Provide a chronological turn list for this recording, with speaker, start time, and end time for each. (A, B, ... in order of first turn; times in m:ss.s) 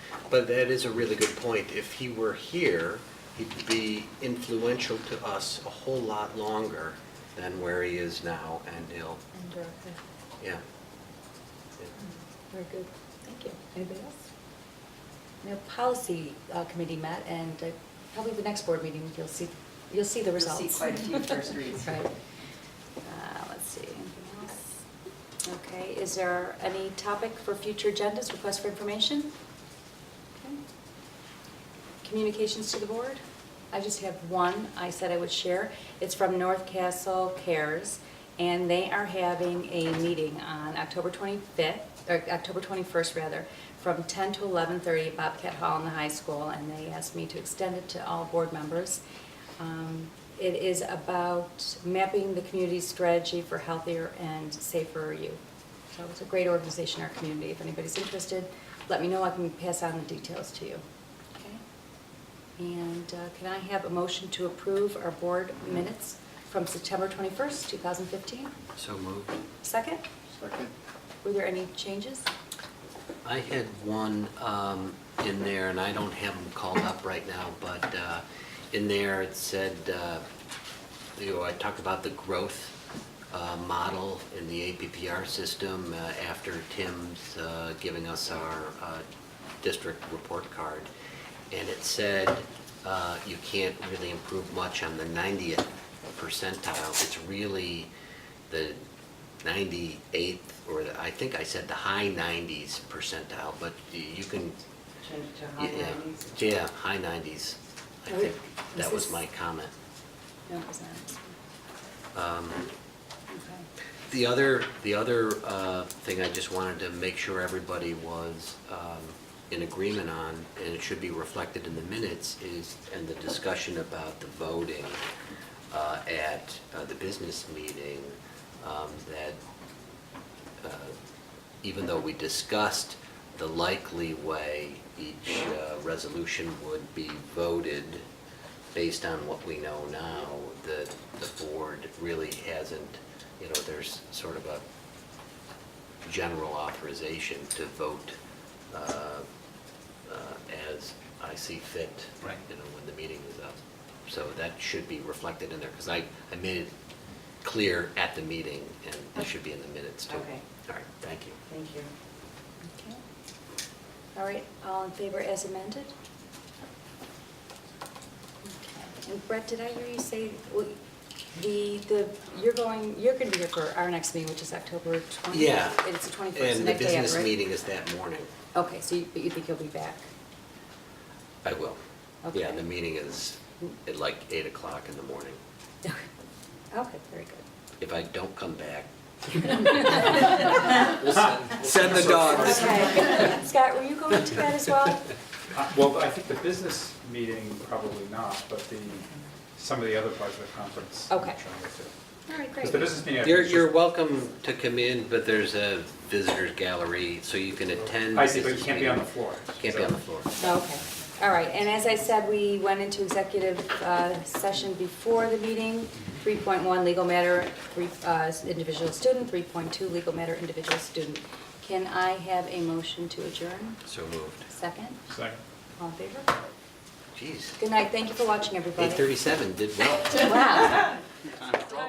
0:00.3-0:09.2 A
0:09.3-0:10.0 B
0:12.5-0:14.3 B
0:15.4-0:22.1 B
0:21.0-0:21.7 C
0:23.0-0:24.8 B
0:25.4-0:29.3 B
0:32.0-0:33.2 B
0:33.7-0:49.0 B
0:49.6-0:55.4 B
0:55.9-1:00.8 B
1:01.4-1:01.6 B
1:02.6-1:08.6 B
1:08.8-1:09.4 A
1:09.6-1:10.0 B
1:11.2-1:12.3 B
1:13.2-1:20.2 A
1:21.2-1:22.8 A
1:23.3-1:29.0 A
1:29.6-1:30.9 A
1:31.5-1:37.9 A
1:38.5-1:38.8 A
1:39.4-1:44.6 A
1:45.0-1:46.2 C
1:45.5-1:49.7 A
1:48.1-1:49.2 B
1:50.5-1:51.4 B
1:52.1-1:52.7 A
1:53.3-1:53.7 B
1:54.1-2:05.0 A
2:05.7-2:09.4 A
2:10.6-2:10.9 A
2:11.6-2:18.0 A
2:18.7-2:24.6 A
2:26.0-2:28.2 A
2:28.7-2:29.2 A
2:30.0-2:36.7 A
2:37.4-2:41.4 A
2:41.5-2:41.9 C
2:42.6-2:43.0 B
2:44.1-2:45.9 B
2:48.4-2:50.8 B
2:51.3-2:57.4 B
2:55.3-2:58.3 A
2:58.5-3:00.1 B
3:01.4-3:01.8 A
3:02.2-3:02.6 B
3:02.3-3:05.4 A
3:06.7-3:07.4 B
3:07.8-3:13.2 A
3:09.5-3:10.8 B
3:11.8-3:12.4 D
3:12.3-3:15.1 B
3:15.5-3:21.9 D
3:21.1-3:21.4 B
3:22.3-3:23.0 B
3:22.6-3:23.6 D
3:23.2-3:29.0 A
3:28.0-3:29.9 D
3:29.6-3:30.4 A
3:30.4-3:43.8 B
3:43.8-3:44.5 A
3:44.5-3:45.1 B
3:45.1-3:45.4 D
3:45.8-3:46.3 B
3:47.1-3:47.6 A
3:47.6-3:49.1 B
3:48.8-3:50.6 A
3:50.1-3:51.0 B